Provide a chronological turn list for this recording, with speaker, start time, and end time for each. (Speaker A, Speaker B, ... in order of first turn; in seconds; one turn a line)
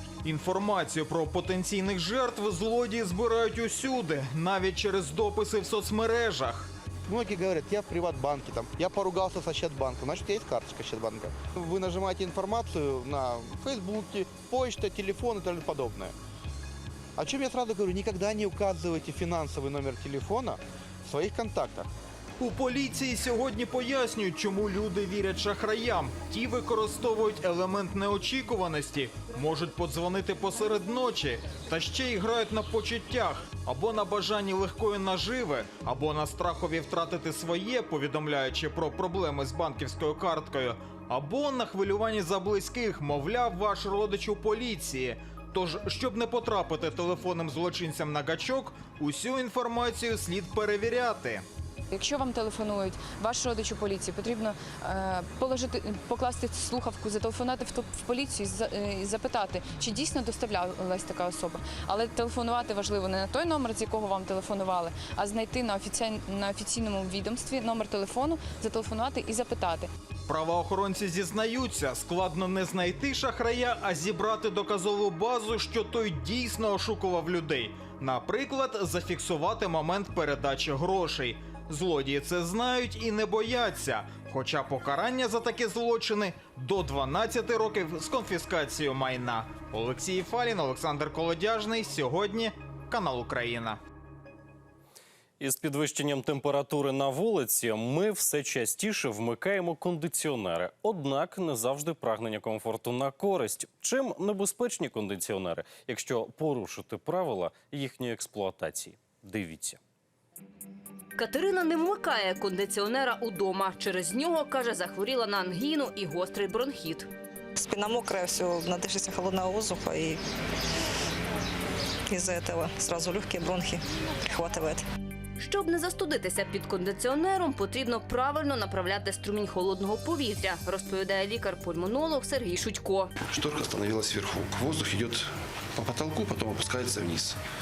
Speaker A: 0.2-6.7
Speaker B: 7.1-16.1
Speaker B: 17.2-21.9
Speaker A: 22.4-51.4
Speaker C: 51.9-69.9
Speaker A: 70.3-93.8
Speaker D: 95.4-109.8
Speaker E: 111.2-117.1
Speaker F: 117.5-120.2
Speaker F: 122.1-124.8
Speaker E: 125.4-133.1
Speaker G: 133.3-137.4